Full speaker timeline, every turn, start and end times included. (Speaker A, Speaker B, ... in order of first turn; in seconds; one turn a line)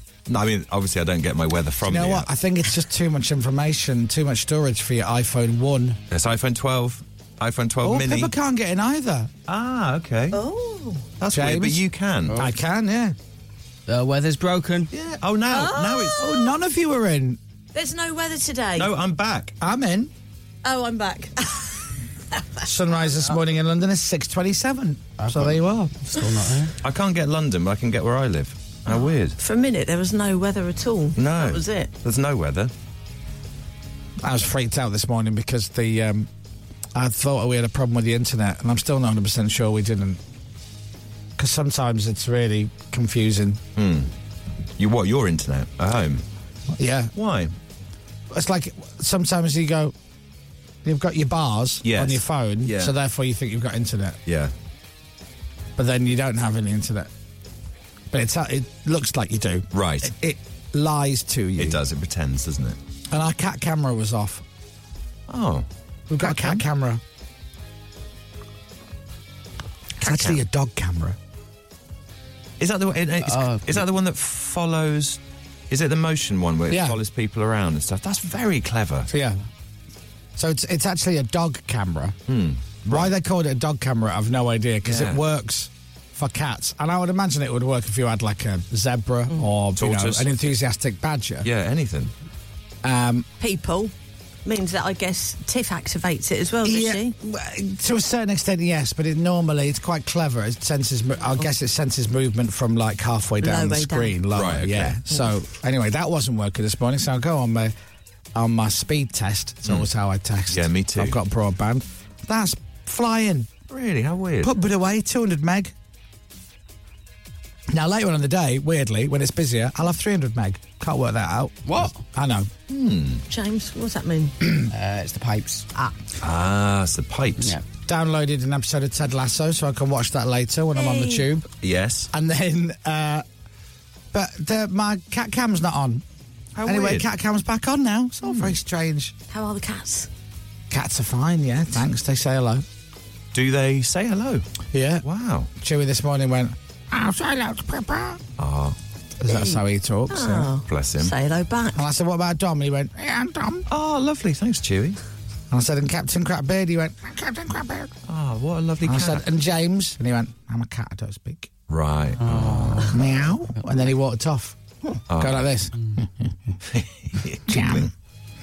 Speaker A: 0.3-2.3
Speaker B: 1.8-6.0
Speaker A: 6.1-8.3
Speaker B: 7.8-9.3
Speaker A: 9.5-10.4
Speaker C: 10.3-11.1
Speaker A: 11.2-12.4
Speaker B: 11.3-11.8
Speaker D: 12.3-12.5
Speaker B: 12.3-13.1
Speaker D: 13.9-14.9
Speaker A: 14.9-16.3
Speaker C: 15.5-16.5
Speaker B: 16.2-17.4
Speaker C: 17.7-18.9
Speaker A: 18.8-19.6
Speaker B: 19.6-20.1
Speaker C: 20.6-21.9
Speaker B: 22.6-26.3
Speaker D: 25.2-25.5
Speaker D: 26.1-26.7
Speaker A: 26.8-29.4
Speaker C: 28.9-31.9
Speaker A: 31.2-32.7
Speaker B: 34.2-36.3
Speaker B: 36.9-40.2
Speaker B: 41.4-43.6
Speaker A: 43.8-44.1
Speaker A: 44.8-46.2
Speaker B: 46.8-47.1
Speaker A: 47.1-47.5
Speaker B: 48.3-49.9
Speaker B: 50.8-54.2
Speaker A: 51.8-52.9
Speaker A: 54.2-54.5
Speaker B: 55.8-57.1
Speaker B: 58.1-61.8
Speaker A: 59.7-60.1
Speaker A: 61.6-62.8
Speaker B: 63.1-64.4
Speaker A: 65.3-65.7
Speaker B: 66.1-67.0
Speaker A: 66.2-66.6
Speaker B: 70.0-71.2
Speaker A: 70.0-70.4
Speaker A: 72.6-79.1
Speaker D: 73.2-73.8
Speaker B: 76.7-77.0
Speaker B: 79.1-79.4
Speaker B: 80.4-82.2
Speaker A: 82.3-83.1
Speaker B: 82.9-91.5
Speaker A: 84.8-85.2
Speaker A: 89.8-90.3
Speaker A: 91.4-92.1
Speaker B: 92.8-93.2
Speaker C: 93.4-93.9
Speaker C: 94.4-97.1
Speaker B: 96.6-107.7
Speaker C: 103.4-104.2
Speaker A: 104.3-105.0
Speaker B: 108.3-113.5
Speaker A: 110.5-111.2
Speaker A: 113.7-114.5
Speaker B: 114.4-115.7
Speaker B: 117.7-122.5
Speaker D: 121.7-122.0
Speaker A: 122.7-123.2
Speaker C: 123.3-124.4
Speaker D: 124.7-125.6
Speaker A: 126.2-127.6
Speaker B: 127.9-131.4
Speaker C: 130.7-131.3
Speaker A: 131.6-132.1
Speaker B: 132.1-133.2
Speaker B: 134.1-136.0
Speaker A: 136.6-137.1
Speaker B: 136.6-139.1
Speaker A: 138.2-138.6
Speaker C: 139.3-140.1
Speaker B: 140.7-142.6
Speaker A: 143.3-144.4
Speaker B: 144.7-145.0
Speaker A: 145.0-145.5
Speaker B: 145.6-148.2
Speaker A: 148.4-148.8
Speaker B: 149.2-150.5
Speaker C: 149.2-151.8
Speaker A: 150.7-151.1
Speaker B: 151.8-153.7
Speaker A: 153.7-155.0
Speaker B: 155.5-157.9
Speaker A: 158.1-159.2
Speaker B: 158.8-161.5
Speaker A: 161.7-162.9
Speaker D: 162.2-163.0
Speaker B: 162.9-164.6
Speaker A: 165.1-165.5
Speaker B: 165.2-166.1
Speaker A: 166.6-167.9
Speaker B: 167.5-167.9